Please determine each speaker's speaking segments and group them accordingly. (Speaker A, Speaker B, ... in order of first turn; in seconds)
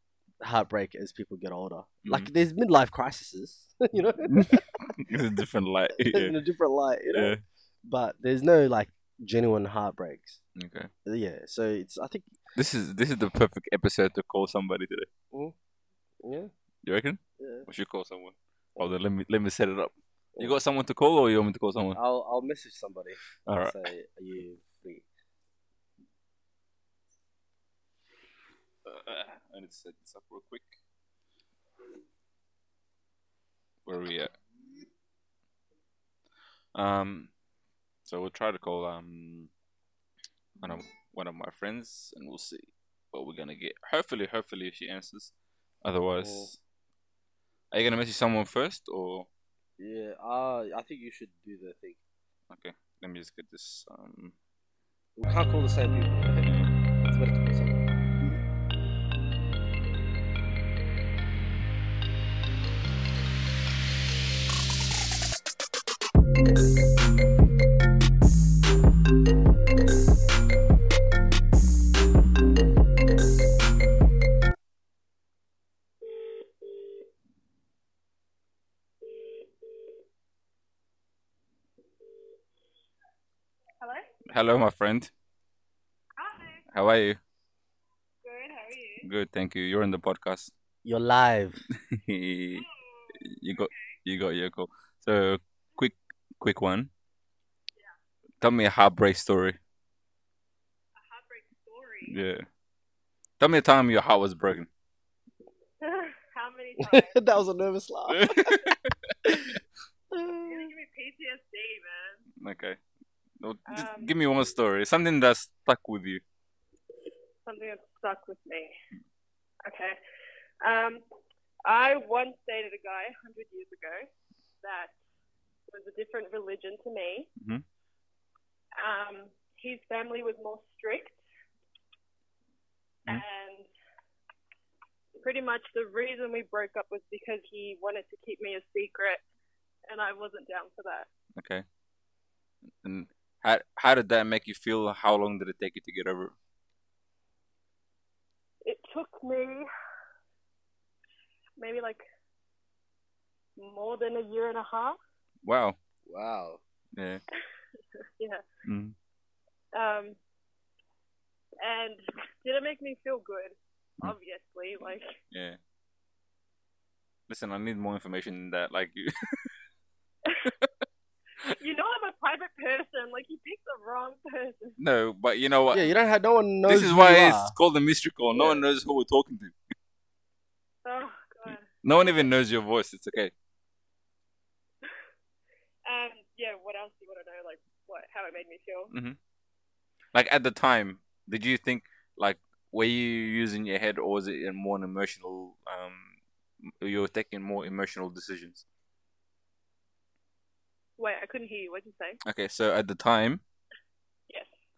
Speaker A: 0.4-4.6, 6.0-7.3, 7.8-10.4, 11.0-12.3, 16.2-16.5, 17.4-17.7, 21.9-25.0, 46.2-46.5, 49.8-52.0, 55.2-56.5, 57.0-57.8, 90.8-91.6, 106.8-108.7, 109.2-109.6, 110.1-110.7, 156.1-156.6, 175.7-177.5, 178.3-178.6
Speaker B: 2.0-2.3, 4.2-6.3, 7.1-7.4, 10.6-10.9, 12.5-15.1, 16.8-22.0, 23.4-23.8, 28.8-30.8, 33.9-34.4, 36.7-37.3, 38.0-39.5, 40.6-45.3, 45.8-46.6, 47.7-49.3, 52.5-54.3, 56.4-56.7, 84.3-85.1, 86.7-87.2, 89.0-90.5, 91.8-92.6, 93.2-96.9, 98.4-99.6, 102.0-102.4, 103.4-104.7, 108.1-109.1, 112.4-112.8, 113.4-116.2, 141.3-141.6, 142.8-146.3, 155.4-155.8, 156.9-157.2, 158.6-158.9, 165.3-165.6, 167.3-169.5, 174.8-175.8, 176.7-179.5, 181.8-183.3, 188.9-189.2, 190.1-196.2, 196.8-198.6, 202.2-203.4
Speaker C: 83.8-84.1, 86.2-86.6, 88.2-89.0, 92.5-94.0, 101.0-102.2, 105.8-107.2, 110.4-112.2, 113.7-114.1, 117.4-118.7, 119.6-120.0, 120.6-121.0, 121.6-124.1, 124.6-124.9, 125.7-127.3, 128.8-131.2, 133.1-133.7, 135.2-139.2, 139.8-141.1, 148.6-149.7, 151.6-152.0, 153.6-155.0, 159.7-160.2, 161.6-165.2, 171.5-174.8, 180.8-182.3, 185.8-188.9, 201.0-202.2